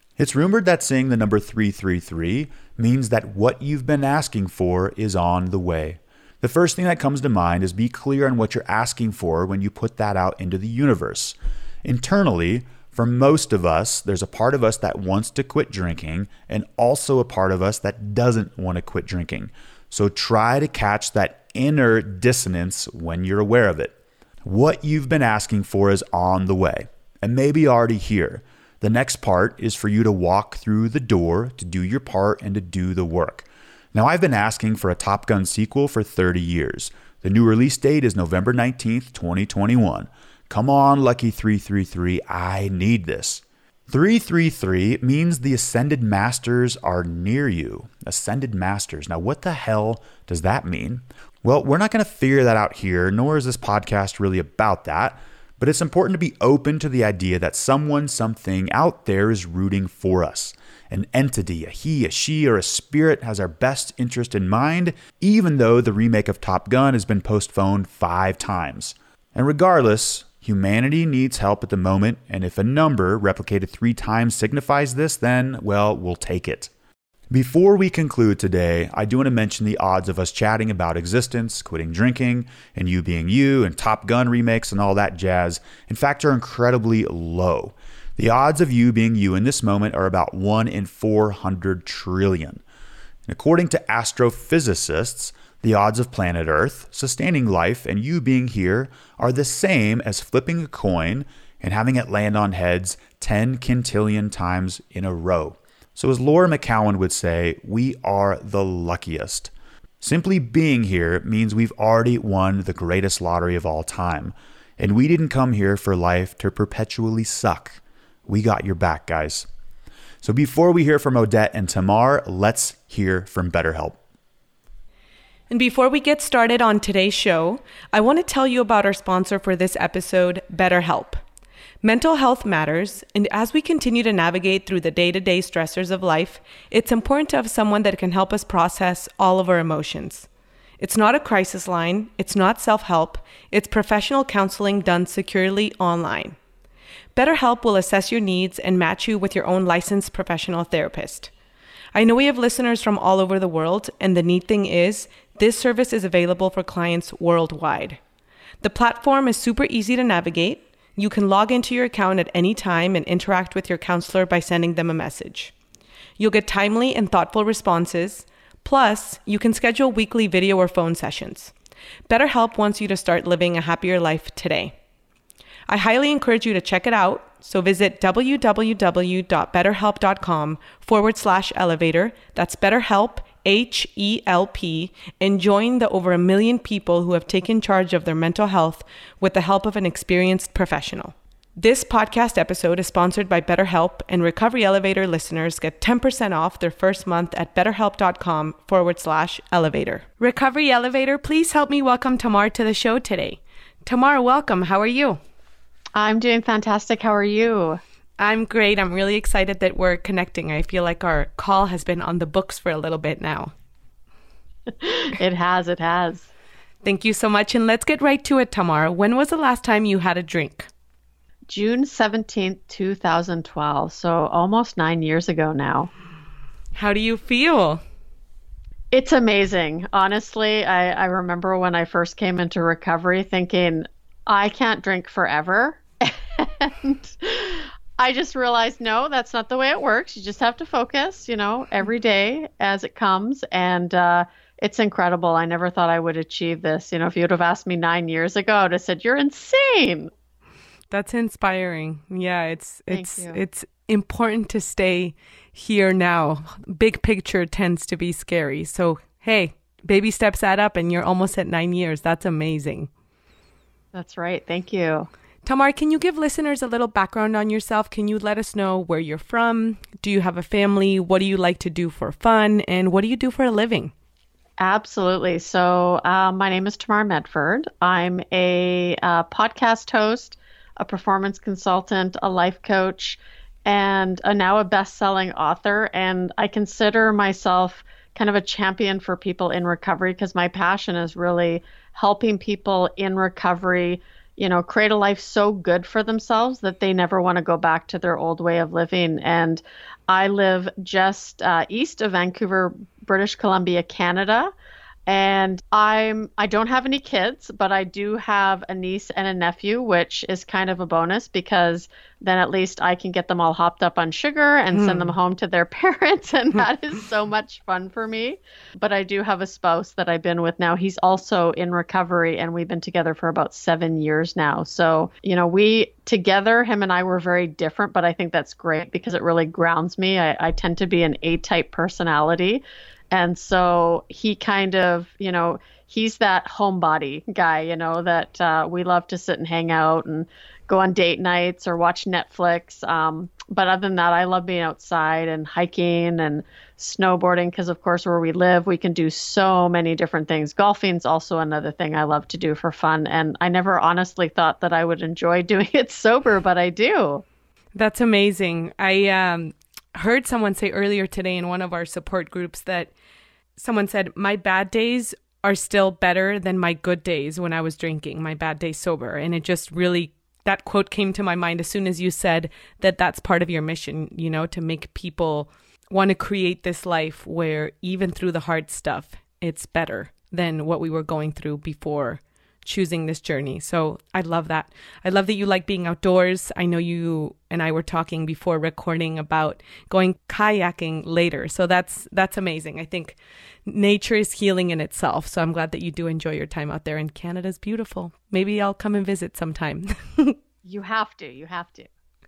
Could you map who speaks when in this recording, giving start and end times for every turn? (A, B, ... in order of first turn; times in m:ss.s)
0:00.2-1:16.7 A
1:17.3-1:32.6 A
1:33.3-1:59.5 A
2:00.2-2:04.0 A
2:05.5-2:11.2 B
2:11.8-2:20.3 B
2:20.8-2:26.4 B
2:27.2-2:31.3 B
2:31.9-2:38.0 B
2:38.6-2:45.5 B
2:46.2-2:51.5 B
2:52.1-2:54.7 B
2:55.7-3:25.2 B
3:26.0-3:27.8 C
3:28.2-3:33.5 B
3:34.8-3:36.3 C
3:36.8-3:40.7 B
3:41.5-3:45.9 C
3:46.7-3:47.8 B
3:48.9-4:10.1 C
4:10.9-4:22.9 B
4:12.9-4:13.4 C
4:23.9-4:25.1 C
4:25.4-4:33.9 B
4:34.6-5:04.5 C
5:05.1-5:57.2 C
5:14.7-5:15.1 B
5:57.7-6:02.9 B
6:03.6-6:40.4 B
6:40.6-6:41.9 C